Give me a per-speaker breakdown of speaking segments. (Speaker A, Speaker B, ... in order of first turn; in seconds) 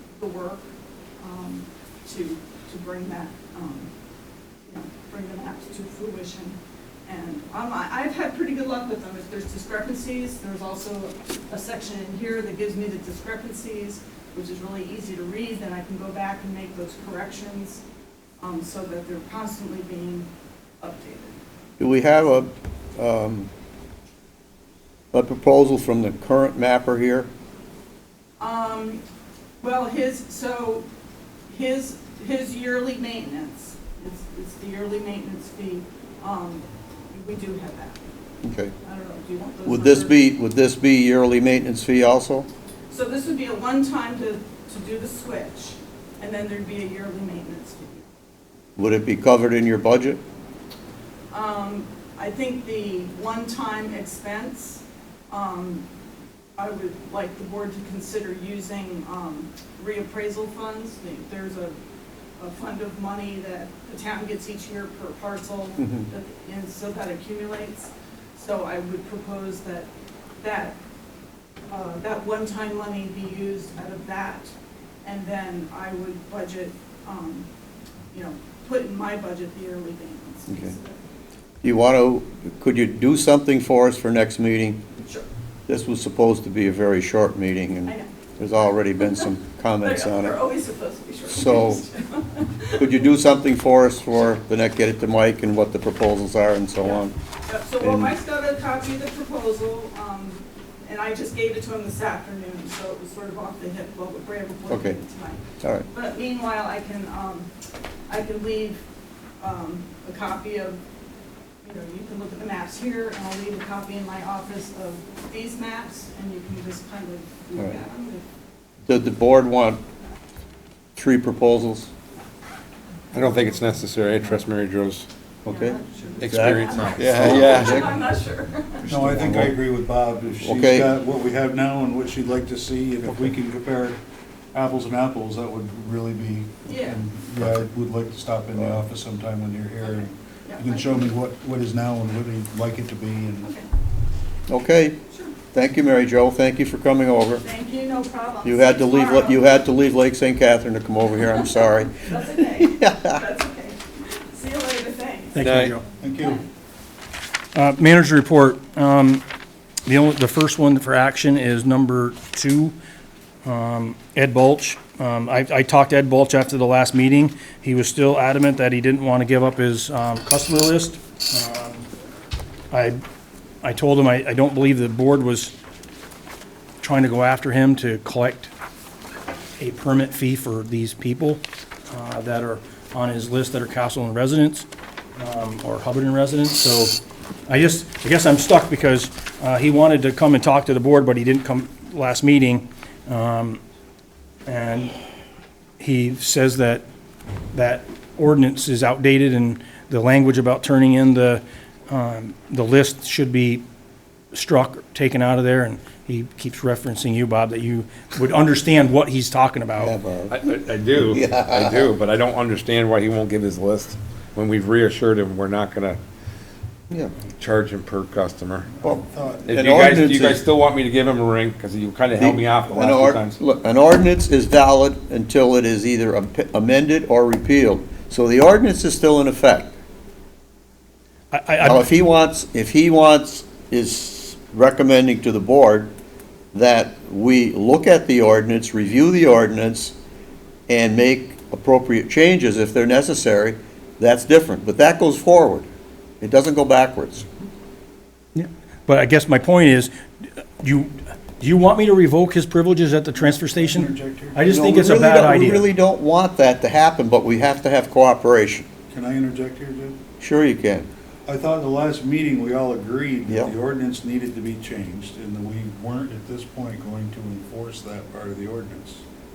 Speaker A: 0.2-0.7, 1.2-3.9, 4.7-17.8, 18.4-20.3, 20.8-21.4, 28.4-29.0, 29.6-30.9, 31.5-38.0, 38.8-40.2, 42.9-48.1, 51.3-55.9, 56.6-61.8, 62.4-69.9, 70.4-70.8, 71.7-74.5, 75.0-77.5, 78.1-81.0, 85.0-85.3, 87.8-88.1, 89.0-89.2, 89.8-92.9, 96.8-107.5, 108.1-108.8, 109.4-110.8, 111.6-118.2, 125.5-128.9, 136.7-137.0, 139.8-141.1, 143.4-143.7, 145.1-145.3, 147.4-149.4, 151.9-156.4
Speaker B: 21.8-23.5, 25.1-27.3, 38.4-38.7, 39.6-42.5, 48.8-50.2, 65.8-66.1, 81.6-84.8, 85.7-90.4, 91.3-91.8, 92.8-97.1, 97.8-98.1, 104.7-105.0, 118.9-119.8, 121.0-121.9, 125.5-128.0, 128.9-129.6, 130.4-130.9, 144.5-145.0, 145.5-147.4, 148.4-153.2, 209.8-210.4, 211.1-211.9, 218.8-220.4, 222.2-229.8, 231.6-235.9, 236.5-239.9, 240.7-245.7, 246.2-247.3, 254.5-258.7, 260.2-260.9, 263.3-263.5
Speaker C: 123.1-125.1, 126.2-127.8, 155.4-155.8, 210.3-216.0, 217.4-218.7, 219.5-223.3
Speaker D: 128.9-134.0, 134.5-143.5, 156.0-156.4, 218.9-219.4, 253.5-254.4, 258.9-260.0, 261.2-269.0
Speaker E: 155.3-155.8, 157.5-159.2, 159.9-162.7, 163.4-171.8, 172.7-173.0, 173.6-175.5, 176.8-178.5, 179.6-187.0, 187.5-193.6, 194.4-194.9, 195.8-196.8, 197.5-203.6, 204.3-209.9, 231.3-231.8, 248.3-255.6